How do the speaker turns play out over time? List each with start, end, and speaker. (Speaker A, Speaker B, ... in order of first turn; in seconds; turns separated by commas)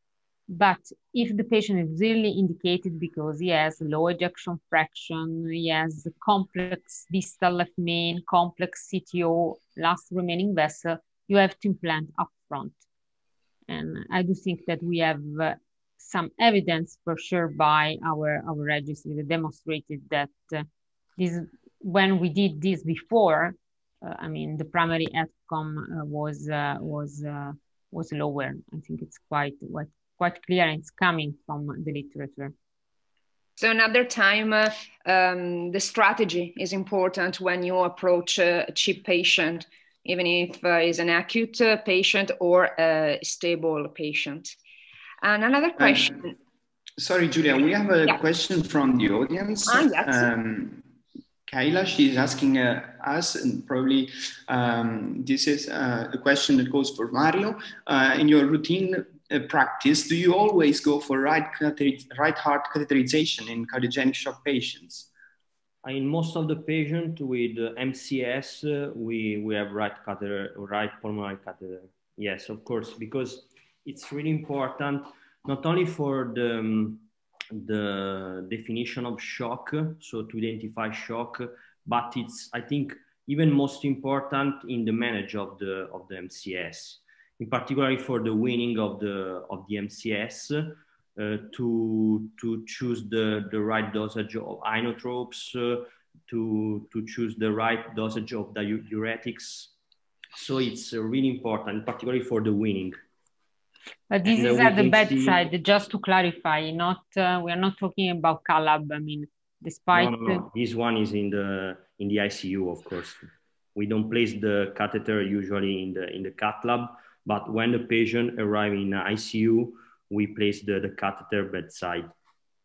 Speaker A: 0.5-12.8, Speaker A: 13.7-20.7, Speaker A: 21.2-32.5, Speaker B: 33.6-44.6, Speaker B: 45.2-46.3, Speaker C: 45.8-46.3, Speaker C: 47.0-50.8, Speaker B: 49.7-50.3, Speaker C: 51.5-65.1, Speaker D: 65.8-99.7, Speaker D: 100.4-102.9, Speaker A: 104.1-110.5, Speaker D: 104.3-105.4, Speaker D: 109.9-122.1